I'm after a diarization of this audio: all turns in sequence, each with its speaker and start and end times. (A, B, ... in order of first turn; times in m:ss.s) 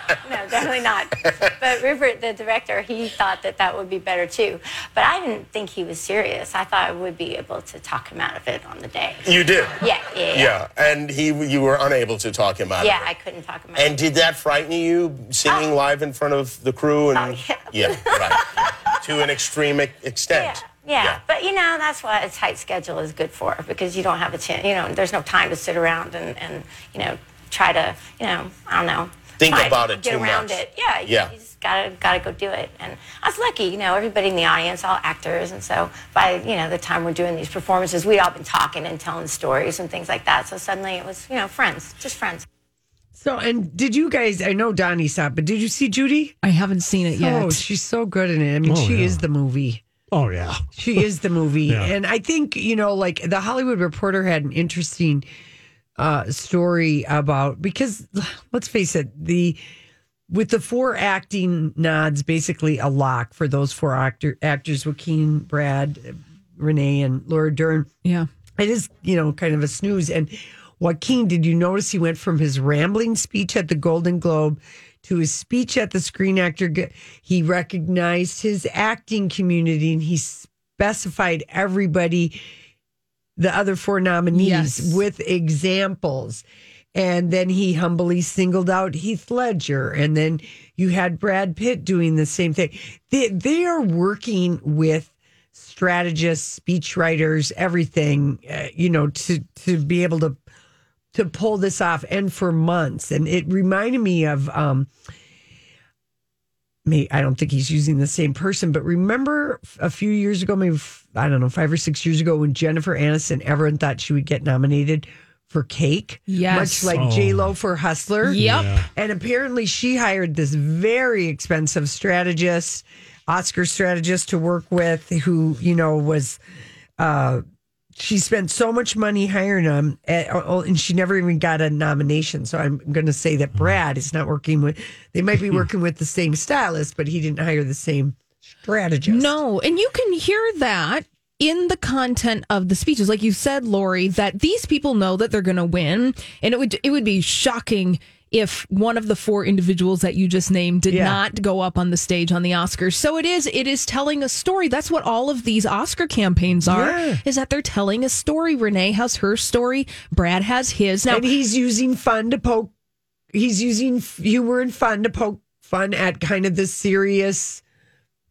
0:00.2-0:09.3 A
0:09.2-0:13.1 B
0:09.8-0:10.6 A
0:12.8-0:14.0 A
0:13.8-0:21.2 B
0:15.5-0:15.8 A
0:17.1-0:18.7 A
0:20.3-0:42.5 A
0:29.4-0:31.3 B
0:43.1-0:46.4 C
0:46.4-0:47.6 D
0:47.1-0:49.8 C
0:48.6-0:49.2 E
0:50.1-0:51.1 E
0:50.8-0:55.2 C
0:56.0-0:59.6 C
1:00.3-1:07.9 C
1:08.6-1:22.4 C
1:23.4-1:40.4 C
1:24.3-1:25.0 D
1:41.1-1:44.9 C
1:46.8-2:06.4 C
1:56.3-1:56.9 D
1:56.9-1:57.5 E
1:58.2-1:58.7 D
1:58.3-1:58.9 E
2:07.0-2:07.4 C
2:08.0-2:19.4 C
2:19.1-2:41.3 D
2:30.9-2:31.2 C
2:36.7-2:37.2 C
2:41.1-2:42.7 C
2:43.3-2:47.6 C